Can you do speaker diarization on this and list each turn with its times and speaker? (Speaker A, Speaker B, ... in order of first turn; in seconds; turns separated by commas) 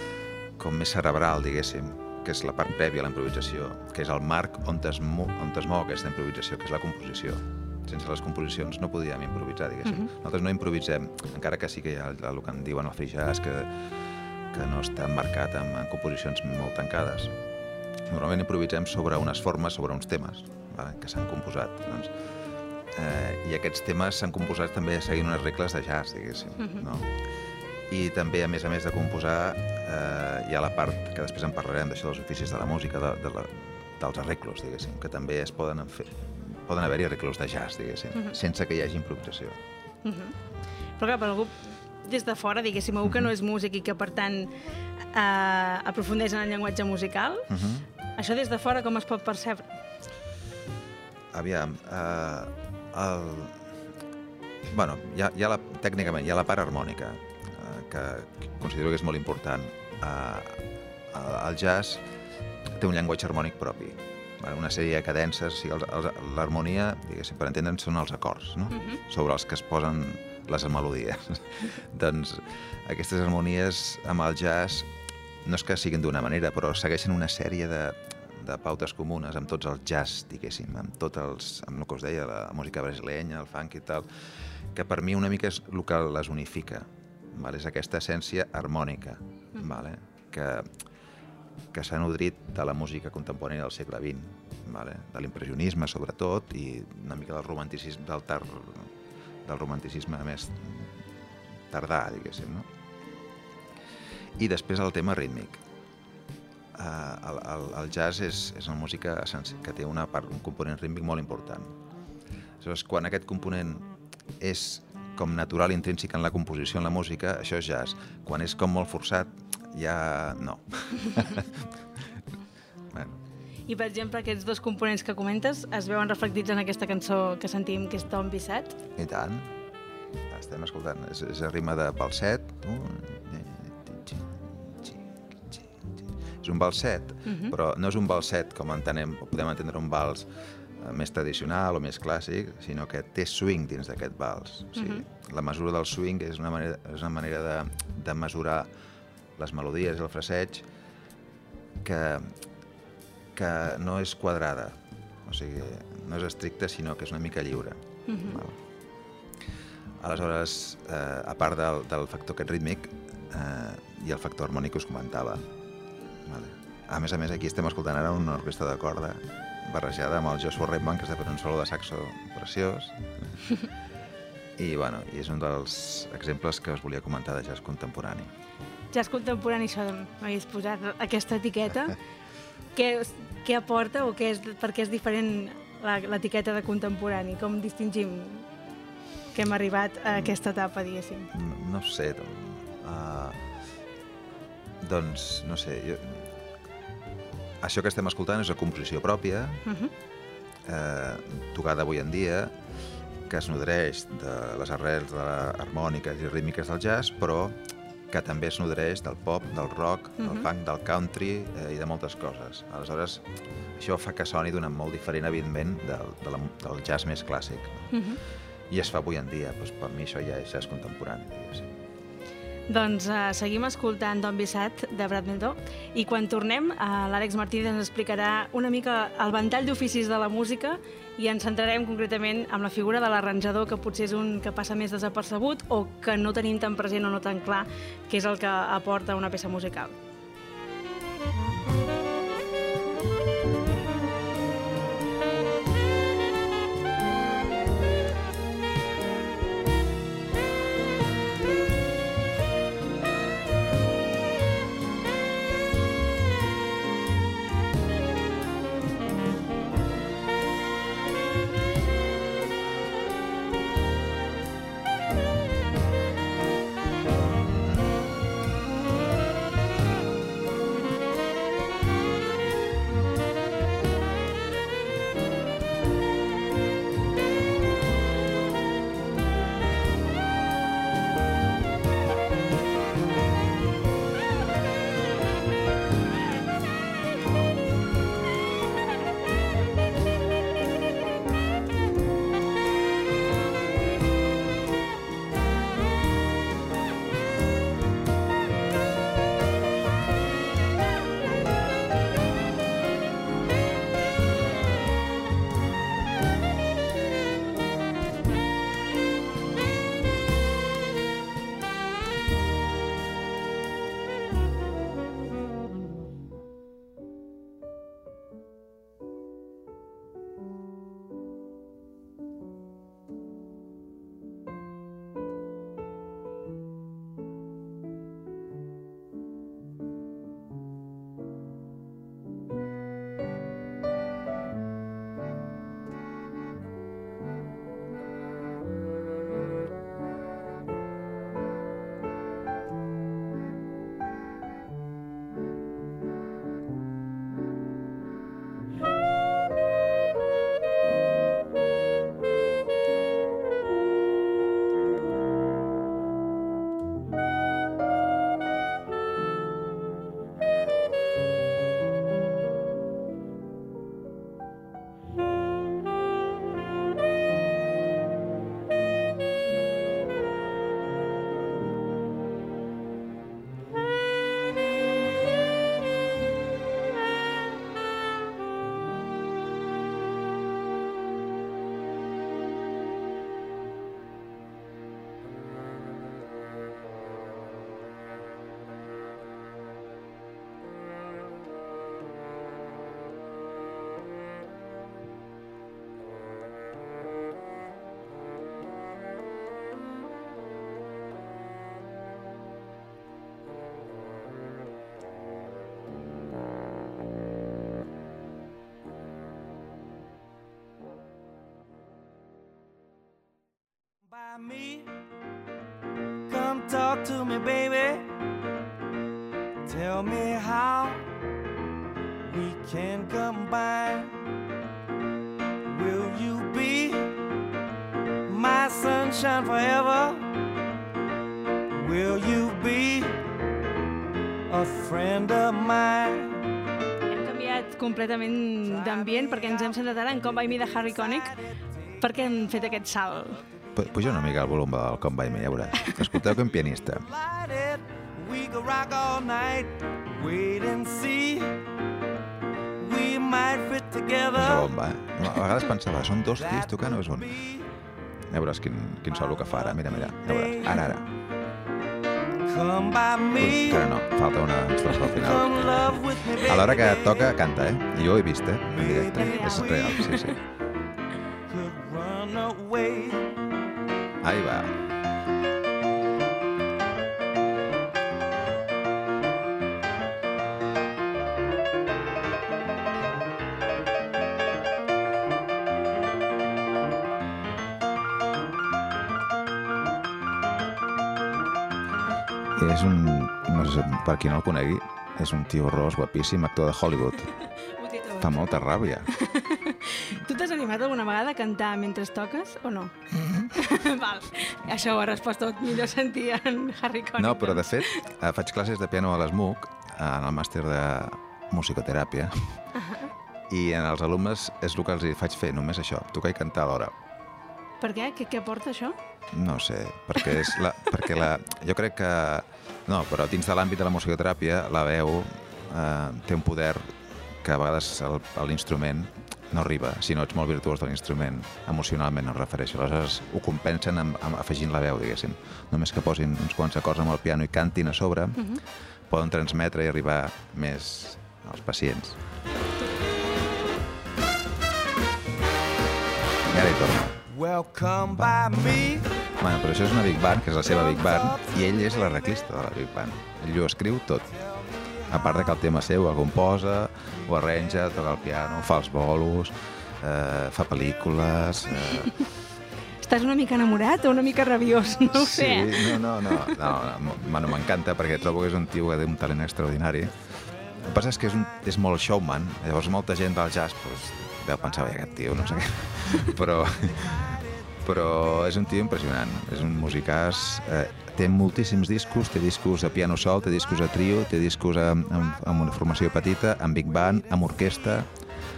Speaker A: 0.6-13.8, Speaker B: 9.8-10.1, Speaker A: 14.5-17.4, Speaker A: 18.1-22.2, Speaker A: 22.9-27.2, Speaker B: 26.6-26.9, Speaker A: 27.9-39.6, Speaker B: 38.1-38.4, Speaker B: 40.0-40.4, Speaker B: 41.0-44.5, Speaker A: 43.0-43.3, Speaker B: 45.1-47.5, Speaker A: 47.5-47.9, Speaker B: 48.1-49.7, Speaker A: 51.3-53.6, Speaker A: 54.7-62.0, Speaker A: 62.7-74.9, Speaker B: 68.7-69.0, Speaker A: 75.4-84.1, Speaker A: 84.7-90.7, Speaker A: 91.7-98.9, Speaker A: 99.5-101.0, Speaker A: 101.7-102.7, Speaker A: 104.4-105.6, Speaker A: 106.7-111.8, Speaker A: 112.6-113.9, Speaker A: 114.4-122.1, Speaker A: 122.9-123.2, Speaker B: 123.7-128.8, Speaker A: 129.0-129.5, Speaker A: 130.3-148.7, Speaker B: 137.3-137.5, Speaker B: 144.8-145.1, Speaker A: 149.4-150.7, Speaker A: 151.8-152.4, Speaker A: 153.3-158.6, Speaker B: 158.1-158.4, Speaker A: 160.0-165.4, Speaker A: 166.2-173.3, Speaker A: 174.6-178.3, Speaker B: 178.9-182.0, Speaker B: 182.8-188.5, Speaker B: 189.3-191.3, Speaker A: 191.3-193.4, Speaker A: 194.8-196.3, Speaker A: 197.6-199.6, Speaker B: 199.7-199.9, Speaker A: 200.7-202.6, Speaker A: 203.3-213.2, Speaker B: 210.2-210.5, Speaker A: 213.8-217.9, Speaker B: 217.9-218.2, Speaker A: 218.7-221.7, Speaker B: 222.7-240.0, Speaker C: 414.1-415.0, Speaker C: 416.3-418.1, Speaker C: 419.7-421.1, Speaker C: 422.2-424.2, Speaker C: 425.7-427.2, Speaker C: 428.3-430.3, Speaker C: 431.7-433.2, Speaker C: 434.5-436.4, Speaker B: 437.1-441.3, Speaker C: 438.6-442.7, Speaker B: 442.0-443.4, Speaker C: 443.4-444.3, Speaker A: 443.8-447.1, Speaker C: 445.8-451.7, Speaker C: 452.8-454.7, Speaker A: 454.4-457.4, Speaker C: 456.4-457.7, Speaker A: 458.3-461.1, Speaker C: 459.4-460.8, Speaker C: 462.5-463.9, Speaker A: 463.4-470.4, Speaker C: 465.0-467.4, Speaker C: 468.7-470.2, Speaker B: 469.2-470.4, Speaker C: 471.5-473.4, Speaker A: 474.2-474.8, Speaker A: 492.6-497.4, Speaker B: 497.4-498.6, Speaker A: 498.2-499.1, Speaker B: 499.1-508.1, Speaker A: 503.2-503.5, Speaker A: 507.2-512.6, Speaker B: 512.8-513.1, Speaker A: 513.5-517.0, Speaker B: 517.8-519.0, Speaker A: 519.3-538.6, Speaker A: 539.1-542.2, Speaker A: 546.5-547.2, Speaker C: 547.3-549.2, Speaker A: 548.3-554.3, Speaker C: 551.0-551.4, Speaker A: 555.1-562.2, Speaker B: 561.9-562.2, Speaker B: 563.0-566.6, Speaker A: 565.1-588.1